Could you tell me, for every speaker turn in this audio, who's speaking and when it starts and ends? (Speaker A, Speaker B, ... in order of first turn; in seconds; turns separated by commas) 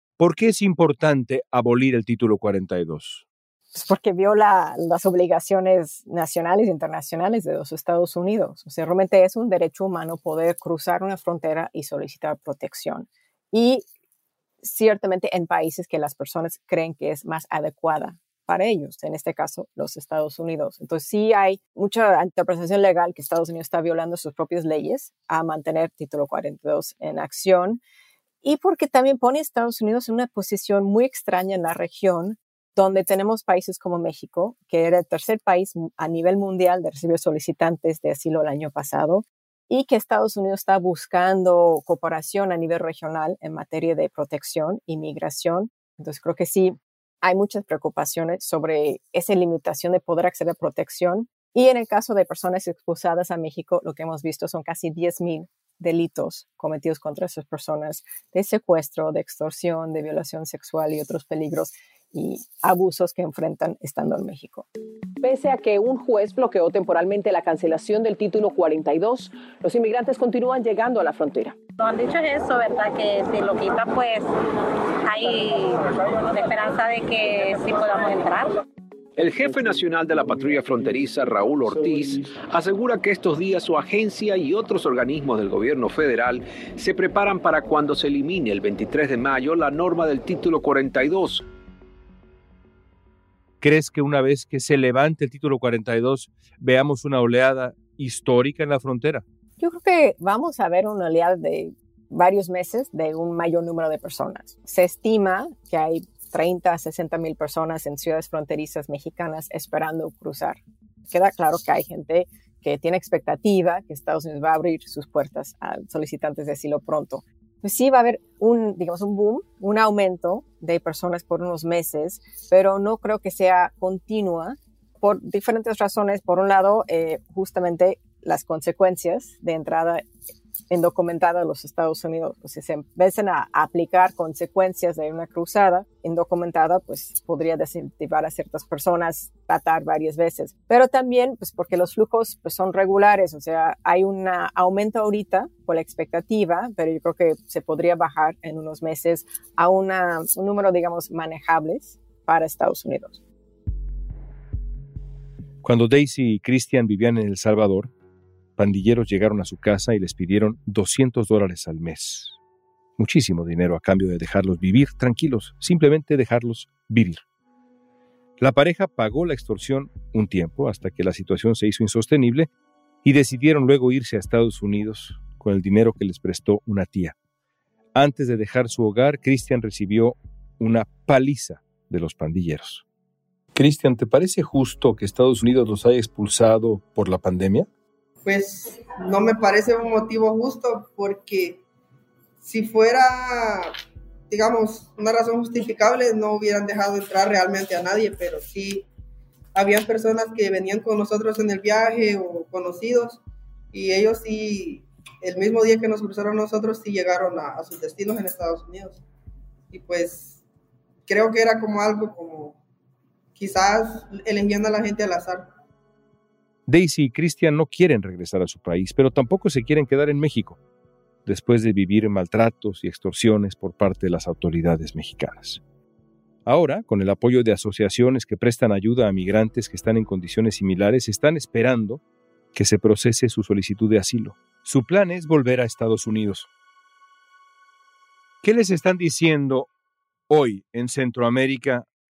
Speaker A: 0.2-3.2, Speaker B: 3.7-13.8, Speaker B: 14.6-27.8, Speaker B: 28.4-64.7, Speaker C: 65.2-71.6, Speaker D: 71.8-74.3, Speaker D: 75.0-78.6, Speaker E: 79.2-91.5, Speaker A: 93.6-99.2, Speaker B: 99.6-110.6, Speaker B: 111.1-130.0, Speaker B: 130.7-153.2, Speaker A: 155.6-157.9, Speaker A: 158.6-162.4, Speaker A: 163.0-167.2, Speaker A: 168.4-172.5, Speaker A: 173.0-177.2, Speaker A: 177.9-182.8, Speaker A: 183.5-187.7, Speaker F: 188.2-191.6, Speaker F: 192.4-193.7, Speaker F: 194.3-198.9, Speaker F: 199.5-209.0, Speaker F: 209.7-210.4, Speaker F: 211.1-212.6, Speaker F: 213.3-215.5, Speaker A: 216.7-220.6, Speaker A: 221.2-225.6, Speaker A: 226.4-232.0, Speaker A: 232.5-236.5, Speaker A: 238.4-239.7, Speaker A: 240.3-241.9